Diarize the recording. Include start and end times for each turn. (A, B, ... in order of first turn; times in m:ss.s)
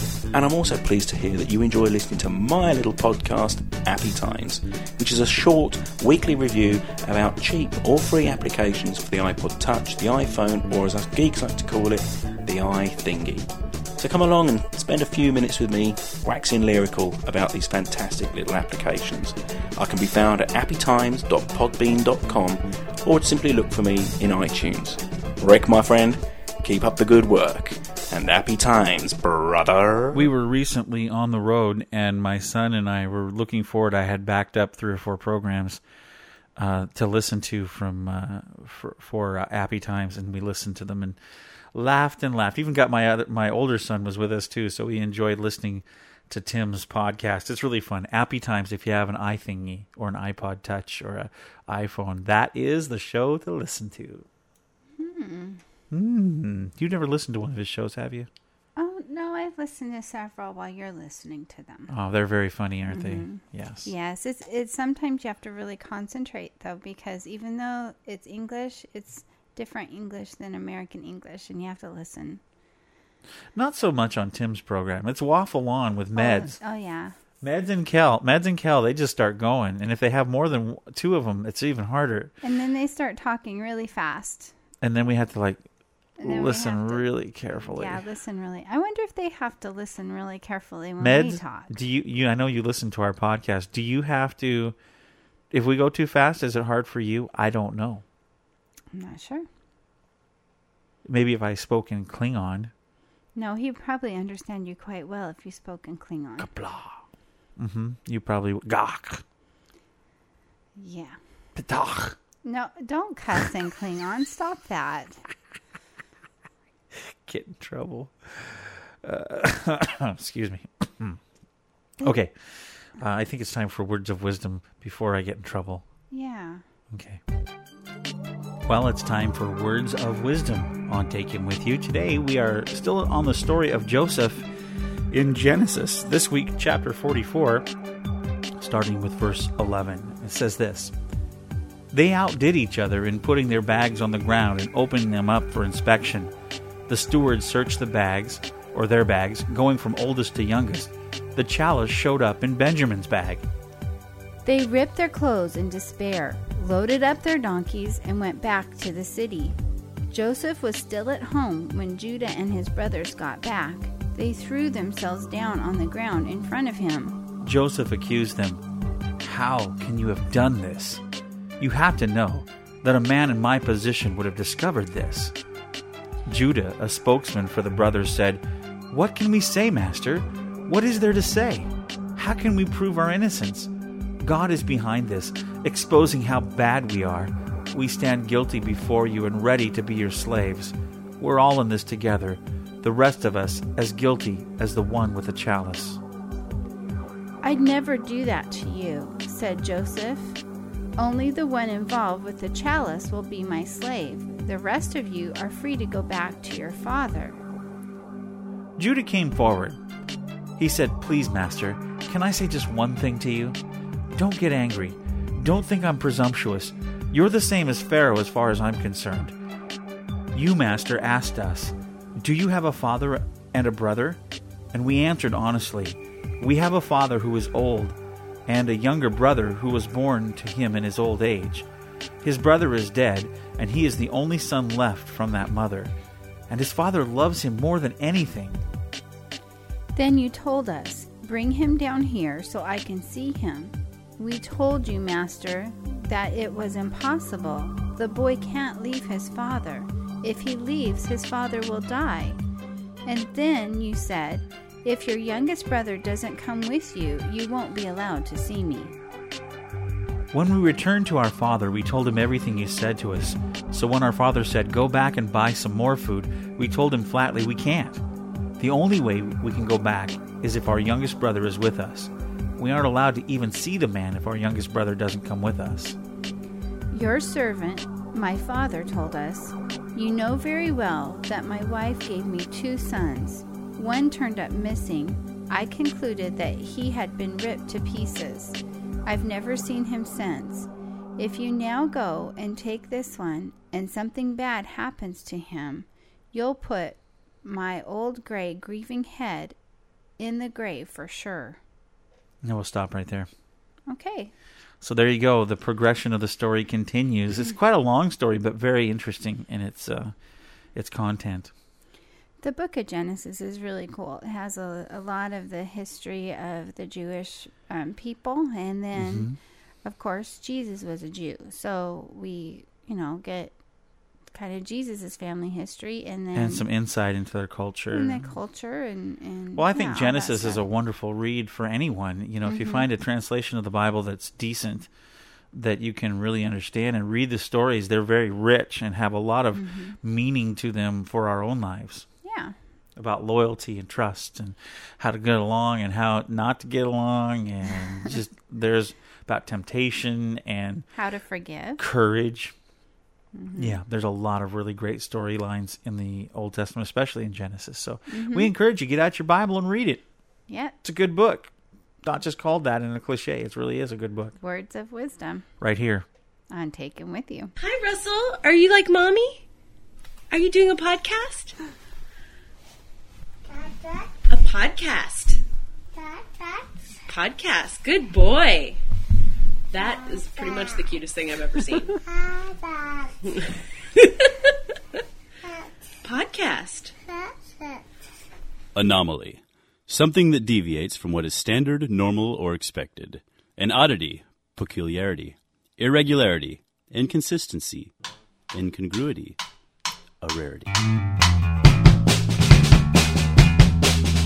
0:00.3-0:30.3 A
0:30.1-0:35.8 B
0:36.6-0:41.2 B
0:41.7-0:54.3 B
0:55.0-0:55.6 C
0:55.9-0:58.3 B
0:58.8-1:01.9 C
1:01.9-1:03.9 B
1:02.9-1:12.4 C
1:13.6-1:16.6 B
1:16.2-1:17.2 C
1:17.4-1:22.3 B
1:22.4-1:24.5 C
1:24.8-1:25.6 B
1:26.2-1:31.8 C
1:26.2-1:28.0 B
1:31.0-1:34.8 B
1:35.5-1:38.0 B
1:38.9-1:39.5 C
1:41.1-1:42.7 B
1:43.4-1:46.5 C
1:46.4-1:47.0 B
1:47.6-1:49.2 B
1:50.8-1:51.2 C
1:51.6-1:52.2 B
1:52.4-1:55.2 C
1:57.0-2:01.2 B
2:02.0-2:02.3 B
2:03.0-2:05.8 B
2:06.1-2:06.6 C
2:06.9-2:07.2 B
2:08.7-2:14.4 B
2:15.1-2:17.7 B
2:18.6-2:20.9 B
2:21.9-2:26.3 B
2:26.9-2:33.4 B
2:34.4-2:39.6 C
2:40.1-2:47.2 C
2:47.4-2:48.6 B
2:49.2-2:51.0 B
2:51.6-2:55.3 B
2:56.3-3:16.0 B
3:17.4-3:20.4 C
3:21.0-3:27.4 C
3:28.8-3:29.8 B
3:30.6-3:33.6 B
3:34.1-3:39.4 B
3:40.3-3:44.2 B
3:44.7-3:48.0 B
3:48.5-3:51.7 B
3:52.2-3:55.9 B
3:56.5-3:58.6 B
4:00.0-4:12.4 C
4:13.1-4:19.0 C
4:20.3-4:28.0 B
4:28.6-4:36.0 B
4:36.9-4:59.6 C
5:00.2-5:01.6 C
5:02.4-5:03.3 B
5:03.9-5:04.3 C
5:04.8-5:10.1 B
5:10.8-5:11.5 B
5:12.4-5:19.3 C
5:19.0-5:19.4 B
5:19.8-5:23.6 C
5:24.3-5:26.7 C
5:26.3-5:28.2 B
5:27.9-5:30.6 C
5:29.6-5:34.9 B
5:32.5-5:32.9 C
5:35.5-5:42.1 B
5:39.6-5:40.0 C
5:42.2-5:42.6 C
5:43.0-5:50.9 B
5:51.0-5:51.8 C
5:51.8-5:52.5 B
5:53.4-5:53.8 C
5:53.6-6:00.0 B
5:58.1-5:58.5 C
6:00.5-6:00.8 C
6:00.8-6:01.5 B
6:02.0-6:04.4 B
6:04.4-6:05.5 C
6:05.6-6:06.1 B
6:06.5-6:07.5 C
6:07.6-6:09.4 D
6:10.3-6:11.6 D
6:14.2-6:15.4 D
6:17.1-6:18.8 D
6:19.7-6:22.0 D
6:23.2-6:23.5 D
6:26.0-6:26.9 D
6:28.8-6:37.9 E
6:38.5-6:39.4 E
6:40.2-6:40.7 E